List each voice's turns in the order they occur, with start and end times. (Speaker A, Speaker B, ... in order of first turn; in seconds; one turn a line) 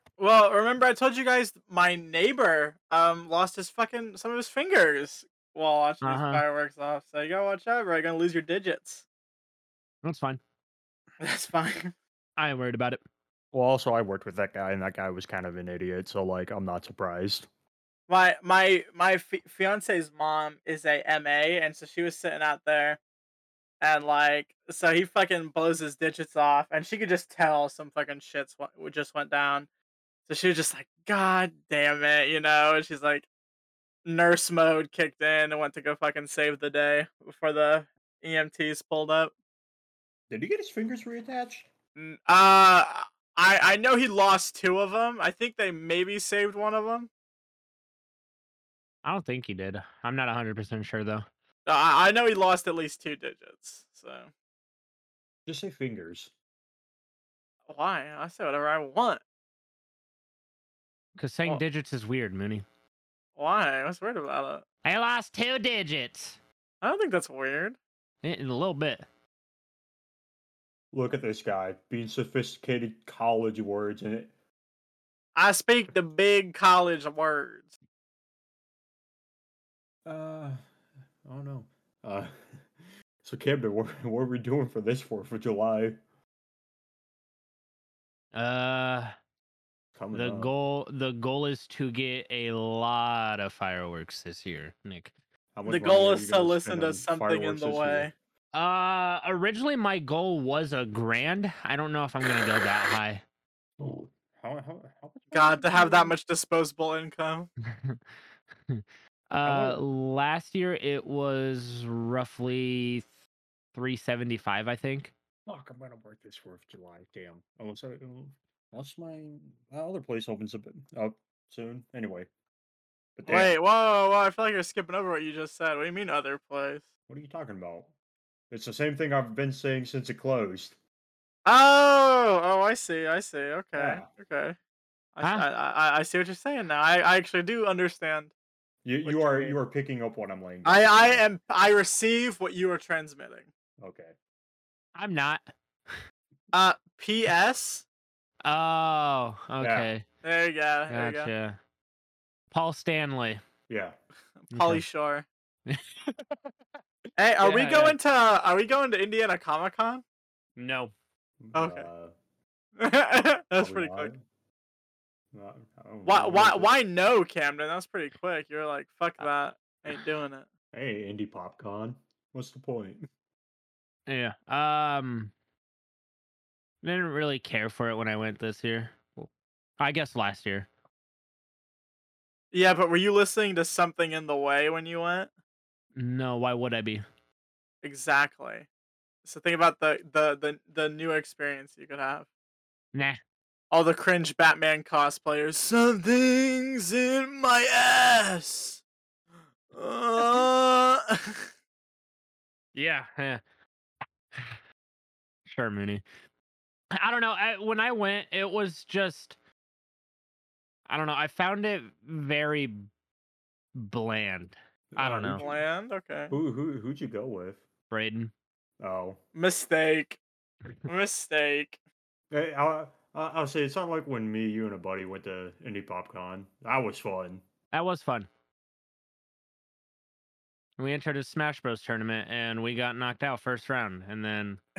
Speaker A: 0.2-9.1
Speaker B: 6.0-6.4
Speaker B: 10.0-10.4
Speaker A: 11.2-11.9
Speaker B: 12.4-13.0
Speaker C: 13.5-17.5
Speaker A: 18.1-23.0
Speaker A: 23.8-29.7
Speaker A: 30.3-33.3
Speaker A: 34.0-39.3
Speaker C: 40.3-41.7
Speaker A: 42.0-47.1
Speaker B: 49.0-51.2
Speaker A: 51.7-54.3
Speaker C: 55.5-56.3
Speaker A: 57.7-59.2
Speaker B: 61.2-62.6
Speaker A: 63.4-64.6
Speaker B: 64.8-66.4
Speaker A: 66.8-67.8
Speaker B: 68.2-69.0
Speaker C: 70.9-74.3
Speaker A: 75.3-77.7
Speaker C: 80.1-80.6
Speaker C: 81.2-82.7
Speaker C: 83.2-86.0
Speaker B: 88.3-89.1
Speaker C: 90.0-90.5
Speaker B: 90.1-95.1
Speaker C: 95.5-98.1
Speaker A: 95.7-98.1
Speaker B: 98.5-103.2
Speaker C: 103.8-106.1
Speaker A: 105.3-107.5
Speaker B: 107.7-108.0
Speaker B: 108.7-113.1
Speaker C: 109.5-109.8
Speaker B: 113.7-115.1
Speaker C: 115.5-122.3
Speaker C: 123.2-123.6
Speaker A: 123.3-126.8
Speaker C: 127.1-127.9
Speaker C: 128.5-130.8
Speaker A: 131.5-134.6
Speaker C: 133.8-134.1
Speaker A: 135.2-138.3
Speaker C: 138.8-141.2
Speaker A: 139.1-139.6
Speaker A: 140.7-143.5
Speaker C: 143.8-144.2
Speaker B: 144.9-146.0
Speaker A: 146.5-147.9
Speaker B: 148.4-150.0
Speaker C: 149.6-149.9
Speaker A: 150.2-151.3
Speaker B: 150.9-151.6
Speaker B: 152.5-153.4
Speaker C: 153.7-154.0
Speaker A: 154.4-155.3
Speaker B: 154.5-154.8
Speaker B: 155.7-156.2
Speaker A: 157.2-160.0
Speaker B: 157.4-158.0
Speaker B: 160.6-160.9
Speaker C: 161.4-162.1
Speaker A: 161.5-161.9
Speaker A: 162.8-164.1
Speaker C: 163.6-164.2
Speaker C: 165.3-166.7
Speaker A: 166.1-170.5
Speaker C: 170.7-173.1
Speaker B: 174.1-175.3
Speaker B: 176.8-180.7
Speaker A: 182.5-185.3
Speaker B: 186.0-187.0
Speaker A: 187.8-188.7
Speaker A: 189.2-192.3
Speaker B: 192.9-193.2
Speaker A: 193.7-198.8
Speaker A: 199.7-201.5
Speaker B: 202.7-203.4
Speaker B: 204.3-204.6
Speaker B: 205.5-206.0
Speaker B: 207.0-209.4
Speaker B: 210.9-212.8
Speaker B: 213.8-215.4
Speaker C: 214.9-215.6
Speaker A: 215.3-216.3
Speaker C: 216.3-217.6
Speaker B: 217.9-218.3
Speaker C: 218.8-219.2
Speaker A: 219.3-220.2
Speaker A: 220.9-221.8
Speaker C: 222.3-227.4
Speaker B: 227.7-228.3
Speaker B: 230.8-234.6